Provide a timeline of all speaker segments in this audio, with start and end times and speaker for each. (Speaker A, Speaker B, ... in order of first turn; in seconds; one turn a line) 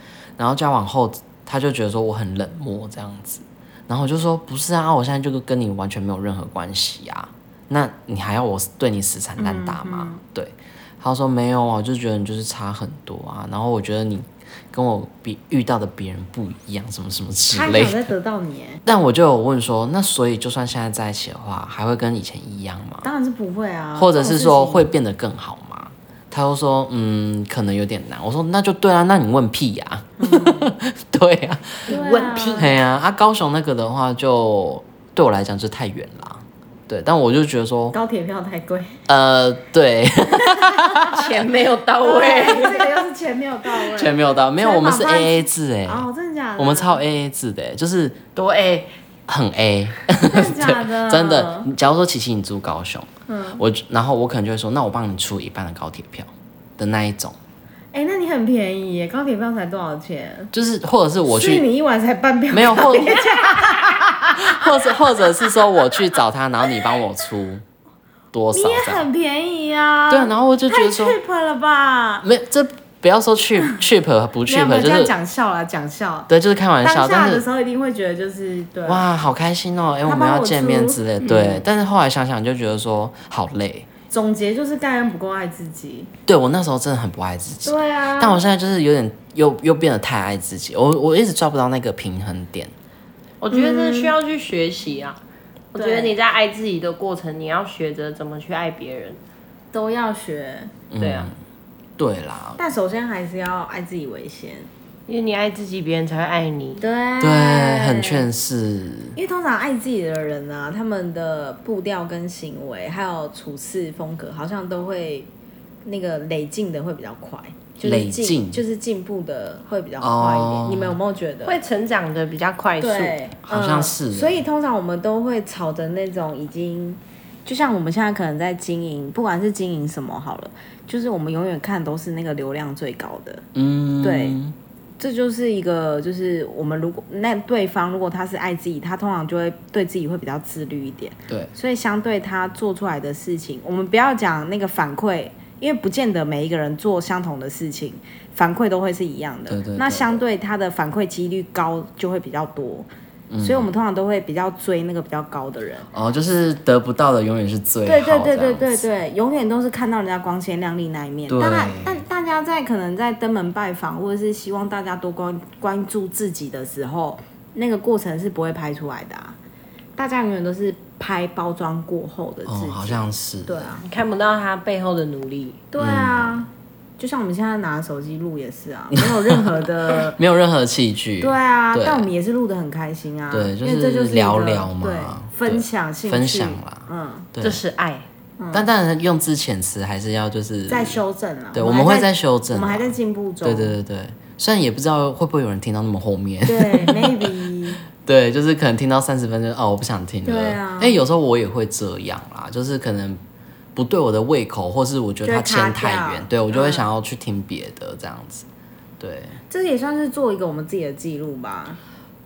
Speaker A: 0.4-18.1
Speaker B: 9.4-10.2
Speaker B: 17.5-18.8
Speaker A: 18.8-23.1
Speaker B: 23.0-24.9
Speaker A: 23.9-31.9
Speaker B: 30.2-30.7
Speaker B: 31.9-32.7
Speaker C: 31.9-32.7
Speaker A: 32.5-38.0
Speaker B: 37.9-39.0
Speaker A: 39.1-41.4
Speaker B: 40.6-41.1
Speaker C: 41.1-43.0
Speaker B: 42.0-47.0
Speaker A: 43.9-48.3
Speaker C: 48.4-48.9
Speaker A: 49.3-57.4
Speaker B: 50.2-51.7
Speaker B: 53.3-53.6
Speaker B: 57.9-60.5
Speaker A: 60.5-61.6
Speaker B: 61.3-65.3
Speaker A: 62.5-67.6
Speaker A: 68.3-69.1
Speaker B: 68.5-72.2
Speaker A: 70.1-71.2
Speaker A: 72.2-75.1
Speaker B: 74.5-76.3
Speaker A: 76.3-77.4
Speaker B: 76.8-79.0
Speaker A: 78.8-83.9
Speaker B: 80.0-81.4
Speaker B: 84.1-86.1
Speaker A: 86.2-92.7
Speaker B: 87.6-88.5
Speaker C: 93.4-95.2
Speaker B: 93.5-94.1
Speaker C: 95.7-99.2
Speaker B: 95.7-96.1
Speaker B: 99.7-100.7
Speaker A: 100.9-101.3
Speaker C: 101.0-101.3
Speaker A: 102.0-102.6
Speaker B: 102.6-104.7
Speaker C: 105.1-106.8
Speaker B: 106.8-108.3
Speaker A: 107.2-109.2
Speaker B: 109.2-115.3
Speaker B: 115.8-121.6
Speaker A: 117.8-118.6
Speaker A: 120.0-121.0
Speaker C: 121.4-123.2
Speaker B: 122.8-133.4
Speaker A: 123.5-124.4
Speaker A: 133.5-134.5
Speaker B: 134.0-134.4
Speaker B: 135.0-152.9
Speaker A: 149.5-150.2
Speaker A: 153.3-153.7
Speaker B: 153.4-155.9
Speaker A: 155.9-158.8
Speaker B: 157.8-169.3
Speaker A: 161.3-162.0
Speaker B: 169.9-173.8
Speaker A: 172.4-173.8
Speaker C: 173.8-175.6
Speaker B: 175.7-180.2
Speaker A: 175.8-176.5
Speaker A: 178.9-182.1
Speaker B: 181.2-187.3
Speaker A: 183.3-187.6
Speaker C: 187.4-188.1
Speaker B: 188.4-188.7
Speaker A: 188.5-191.0
Speaker B: 190.7-193.8
Speaker A: 191.5-197.4
Speaker B: 196.4-197.8
Speaker A: 197.9-203.2
Speaker B: 200.2-201.0
Speaker A: 203.8-208.4
Speaker B: 205.2-206.9
Speaker A: 209.0-209.4
Speaker B: 209.5-211.8